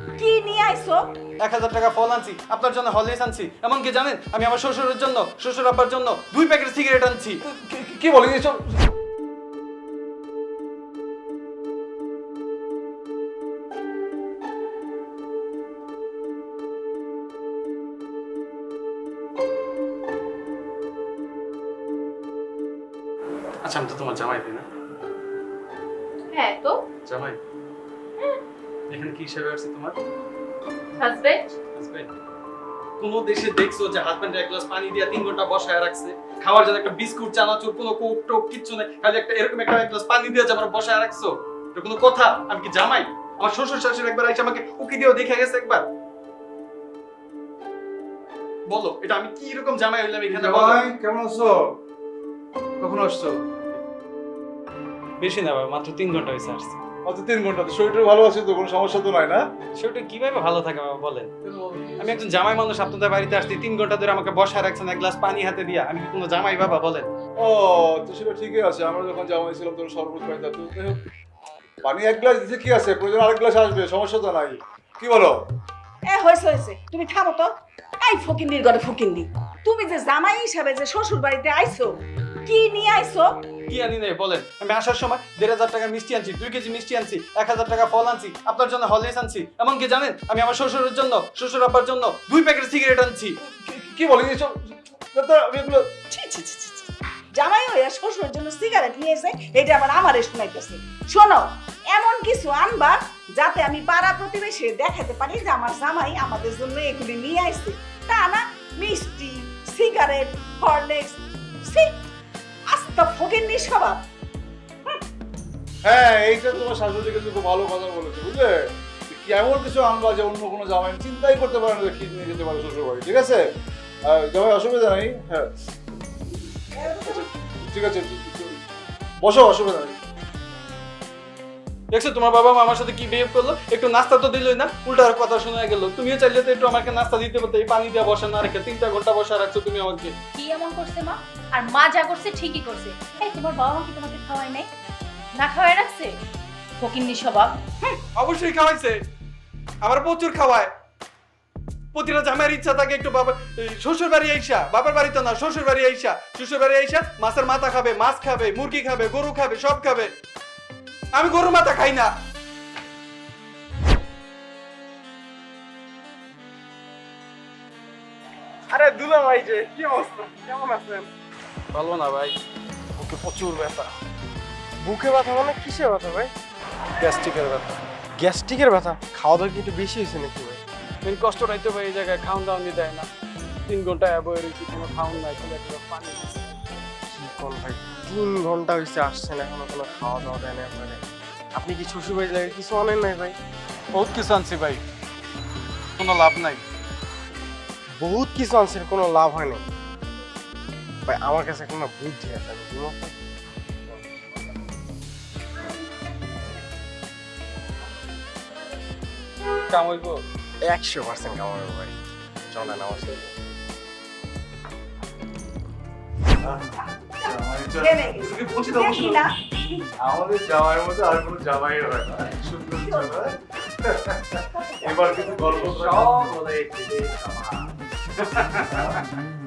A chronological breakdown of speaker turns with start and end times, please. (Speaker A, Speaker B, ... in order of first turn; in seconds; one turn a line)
Speaker A: 0.2-1.1
Speaker B: 1.4-7.4
Speaker C: 7.5-8.8
Speaker B: 23.6-24.6
Speaker D: 26.3-26.8
Speaker B: 27.0-27.4
Speaker B: 28.9-30.0
Speaker D: 31.0-31.4
Speaker B: 31.7-32.1
Speaker B: 33.0-45.9
Speaker B: 48.7-50.8
Speaker C: 50.3-51.7
Speaker C: 52.8-53.4
Speaker B: 55.2-56.8
Speaker C: 57.0-59.4
Speaker B: 59.8-61.3
Speaker C: 61.5-62.0
Speaker B: 62.0-67.1
Speaker C: 67.4-71.0
Speaker C: 71.8-75.3
Speaker A: 76.1-83.3
Speaker B: 83.7-93.3
Speaker C: 93.6-94.5
Speaker C: 95.1-95.9
Speaker A: 96.1-111.9
Speaker A: 112.7-114.0
Speaker C: 115.8-118.5
Speaker C: 119.1-123.4
Speaker C: 124.0-125.5
Speaker A: 126.7-127.3
Speaker C: 127.0-128.6
Speaker C: 129.2-130.0
Speaker B: 131.9-140.1
Speaker D: 140.3-144.7
Speaker D: 145.3-146.2
Speaker D: 146.8-147.6
Speaker B: 148.1-149.0
Speaker B: 149.8-150.7
Speaker B: 151.9-160.1
Speaker B: 161.1-162.1
Speaker E: 168.7-171.1
Speaker B: 171.7-172.4
Speaker B: 173.0-173.9
Speaker E: 174.8-176.3
Speaker B: 177.0-177.8
Speaker E: 178.2-180.6
Speaker B: 181.0-183.1
Speaker B: 183.7-186.4
Speaker E: 187.1-191.0
Speaker E: 191.5-193.3
Speaker B: 193.9-194.8
Speaker B: 196.0-196.6
Speaker E: 198.0-199.7
Speaker E: 201.1-203.1
Speaker B: 209.7-210.2
Speaker E: 210.6-212.0
Speaker E: 212.5-213.2
Speaker C: 216.4-216.7
Speaker C: 217.2-219.1
Speaker A: 217.2-219.3
Speaker C: 220.0-223.2
Speaker A: 222.8-223.1
Speaker C: 223.8-224.3
Speaker A: 224.5-225.6
Speaker C: 224.8-226.3